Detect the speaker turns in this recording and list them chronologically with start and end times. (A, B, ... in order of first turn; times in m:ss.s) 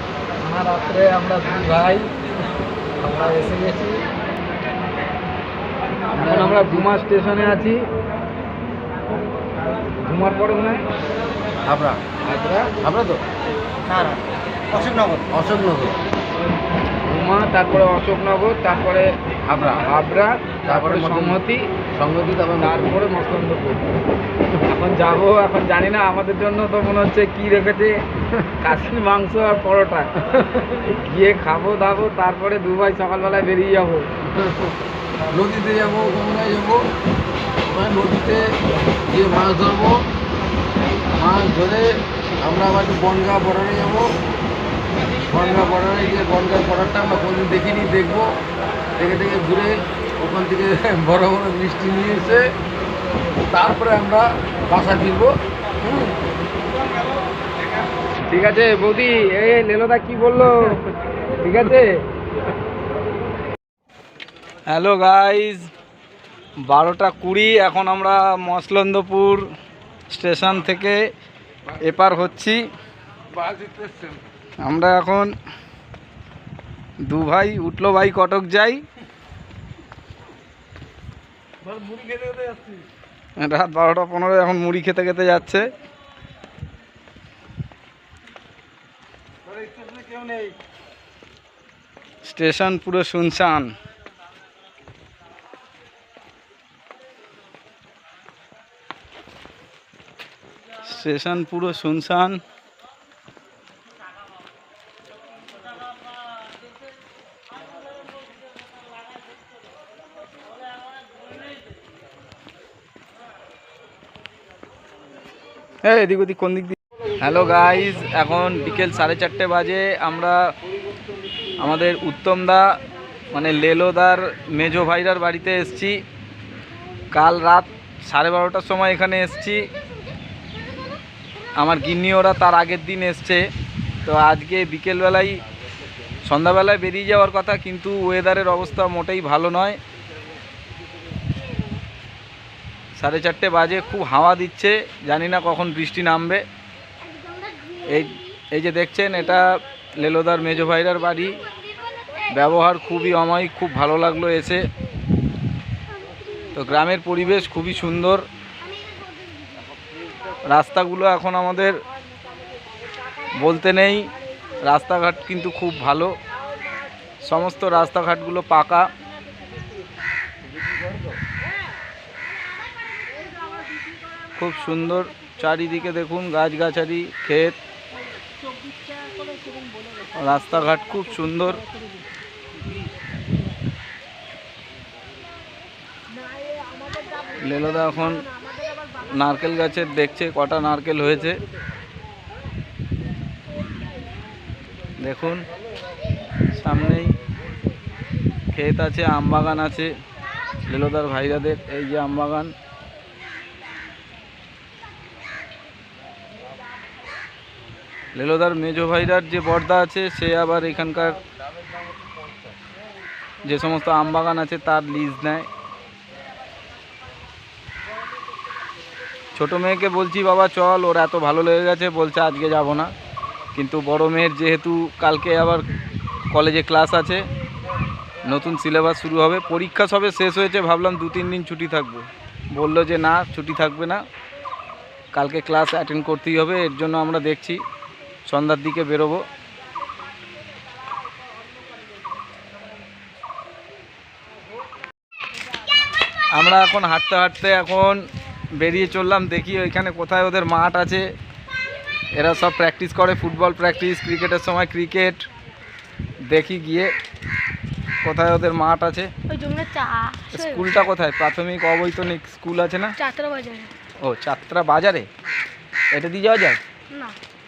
0:00.4-0:02.1 A
0:03.0-0:04.0 A
0:06.2-0:06.9 B
0:06.2-0:07.8 A
0:10.0-0:10.8 A
0:11.6-0:13.2 B
0:12.3-0:12.6 A
0:15.3-0:16.0 B
0:17.1-0:19.0 A
0:19.5-0:19.8 B
0:19.7-0:21.6 A
0:20.7-0:21.4 B
0:22.0-0:23.0 B
0:22.6-0:23.8 A
0:24.7-0:27.9 A
0:28.6-0:30.1 A
0:30.9-0:34.0 A
0:35.3-0:36.8 B
0:37.6-0:38.4 B
0:39.1-0:40.0 B
0:41.1-0:44.1 B
0:45.2-0:48.3 B
0:49.0-0:52.5 B
0:53.5-0:55.3 B
0:58.3-1:00.8 A
1:01.4-1:01.9 A
1:04.7-1:05.6 A
1:06.7-1:09.4 A
1:10.1-1:11.0 A
1:11.8-1:12.6 A
1:13.3-1:14.2 B
1:14.6-1:15.3 A
1:17.0-1:18.8 A
1:21.6-1:22.8 B
1:23.4-1:25.7 A
1:29.6-1:30.5 B
1:32.2-1:33.7 A
1:40.8-1:42.4 A
1:55.8-2:00.4 A
2:01.6-2:02.6 A
2:03.3-2:06.0 A
2:07.1-2:09.6 A
2:11.6-2:13.4 A
2:14.0-2:15.4 A
2:16.2-2:19.8 A
2:23.0-2:26.4 A
2:27.6-2:28.0 C
2:27.8-2:29.4 A
2:30.0-2:31.3 A
2:32.3-2:34.6 A
2:36.5-2:38.2 A
2:40.4-2:41.7 A
2:43.4-2:44.1 A
2:44.6-2:46.1 A
2:47.2-2:48.9 A
2:54.4-2:57.6 A
3:00.1-3:01.6 A
3:07.4-3:08.2 A
3:09.1-3:11.4 A
3:15.0-3:15.4 A
3:16.5-3:17.1 A
3:18.5-3:19.9 A
3:20.6-3:22.5 A
3:28.1-3:31.2 A
3:33.4-3:35.5 A
3:39.3-3:42.9 A
3:43.5-3:45.6 A
3:46.3-3:47.2 A
3:48.2-3:54.0 A
3:55.1-3:57.6 A
3:58.3-3:59.2 A
4:06.3-4:08.0 A
4:08.6-4:11.0 A
4:12.2-4:15.2 A
4:16.3-4:16.9 A
4:18.0-4:19.1 A
4:19.3-4:20.9 C
4:20.3-4:22.9 A
4:23.0-4:23.7 C
4:24.0-4:25.1 A
4:25.9-4:26.6 A
4:26.9-4:27.2 C